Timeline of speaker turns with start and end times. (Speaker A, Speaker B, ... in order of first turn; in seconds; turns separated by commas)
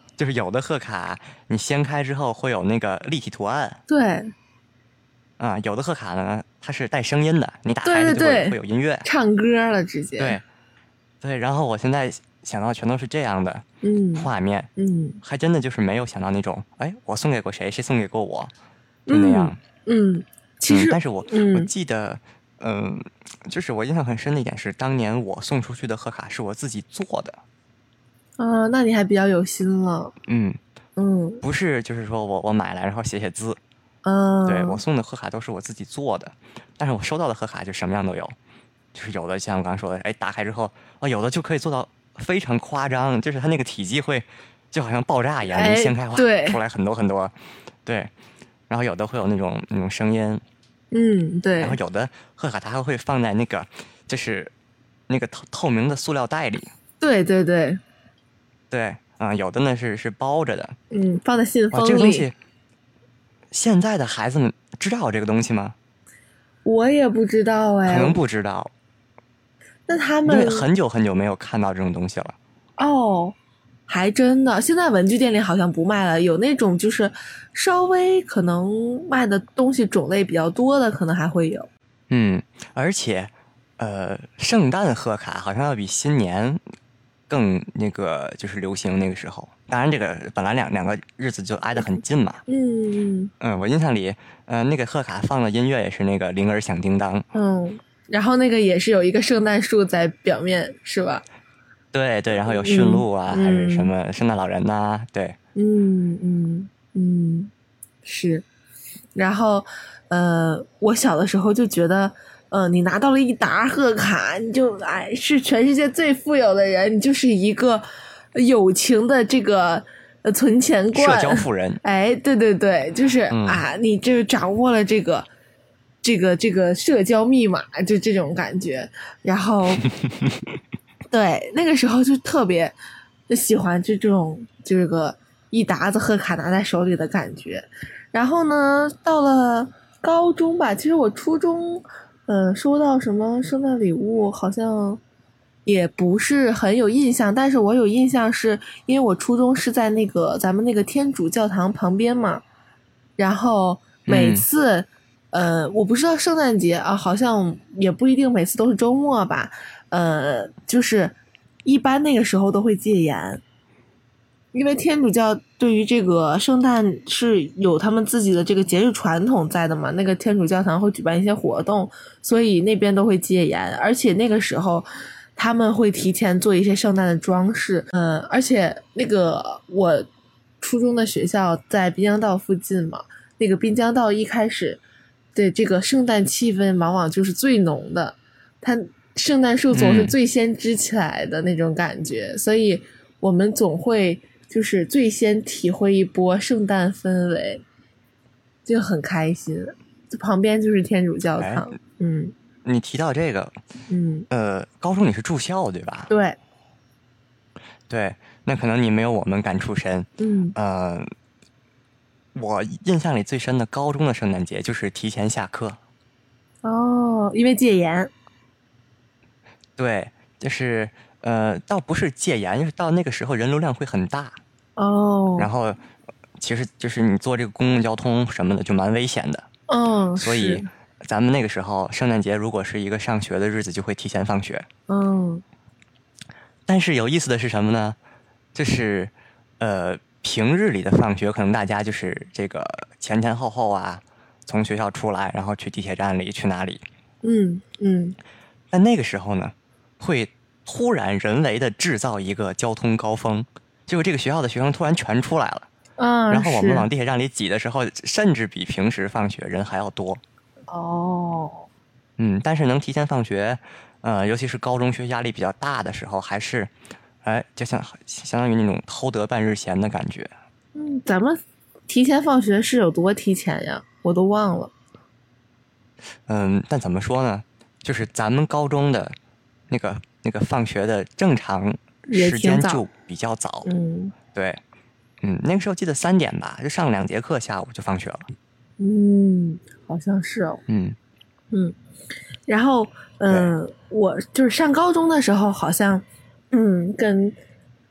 Speaker A: 0.2-3.8, Speaker B: 3.9-4.3, Speaker A: 5.4-9.1, Speaker B: 7.8-10.4, Speaker A: 10.2-10.4, Speaker A: 11.2-14.7, Speaker B: 13.8-15.2, Speaker A: 15.2-18.5, Speaker B: 19.1-21.7, Speaker A: 19.1-19.6, Speaker A: 20.7-27.4, Speaker B: 28.4-30.1, Speaker A: 30.2-30.6, Speaker B: 31.0-31.4, Speaker A: 31.4-33.6, Speaker B: 34.0-34.8, Speaker A: 34.5-38.4, Speaker A: 38.9-47.3, Speaker B: 45.5-46.6, Speaker A: 47.9-48.1, Speaker A: 48.7-50.4, Speaker B: 50.9-51.8, Speaker A: 51.6-54.5, Speaker A: 55.1-56.7, Speaker B: 57.0-57.8, Speaker A: 58.7-60.8, Speaker B: 60.9-62.3, Speaker A: 61.7-62.4, Speaker A: 63.5-65.8, Speaker B: 66.7-68.2, Speaker A: 67.9-68.7, Speaker B: 69.9-70.7, Speaker A: 70.3-72.4, Speaker B: 72.8-73.4, Speaker B: 73.9-81.7, Speaker A: 82.1-86.6, Speaker A: 87.3-92.4, Speaker B: 92.5-93.3, Speaker A: 93.4-97.3, Speaker B: 97.3-101.2, Speaker A: 101.9-105.4, Speaker B: 102.5-103.9, Speaker B: 105.6-107.5, Speaker B: 108.0-108.5, Speaker B: 109.2-125.3, Speaker A: 120.9-121.8, Speaker A: 123.3-123.6, Speaker B: 126.0-129.9, Speaker B: 131.1-132.8, Speaker B: 133.3-145.0, Speaker B: 145.7-152.4, Speaker B: 153.2-163.4, Speaker A: 154.1-154.5, Speaker B: 164.5-180.1, Speaker B: 180.6-184.8, Speaker B: 185.3-197.6, Speaker A: 189.7-190.2, Speaker B: 198.7-202.3, Speaker A: 201.4-201.7, Speaker A: 202.7-203.6, Speaker B: 203.9-204.3, Speaker A: 204.3-206.1, Speaker B: 206.1-206.4, Speaker A: 207.9-211.1, Speaker B: 210.2-210.6, Speaker A: 212.3-215.8, Speaker B: 216.6-218.1, Speaker A: 219.8-224.4, Speaker B: 224.8-225.5, Speaker A: 225.4-225.8, Speaker A: 226.4-229.5, Speaker B: 229.7-230.7, Speaker A: 230.2-234.7, Speaker B: 234.9-235.4, Speaker A: 236.7-238.0, Speaker A: 238.6-246.8, Speaker B: 247.2-248.2, Speaker A: 248.7-255.7, Speaker B: 256.0-256.9, Speaker A: 256.3-260.2, Speaker B: 260.7-261.7, Speaker A: 262.2-266.7, Speaker A: 267.2-270.3, Speaker B: 270.8-274.7, Speaker A: 276.3-279.1, Speaker A: 279.7-283.7, Speaker B: 282.1-282.8, Speaker B: 283.6-284.1, Speaker A: 284.3-284.6, Speaker A: 285.2-288.3, Speaker B: 288.8-290.6, Speaker A: 290.7-291.0, Speaker B: 292.5-297.4, Speaker A: 293.3-293.6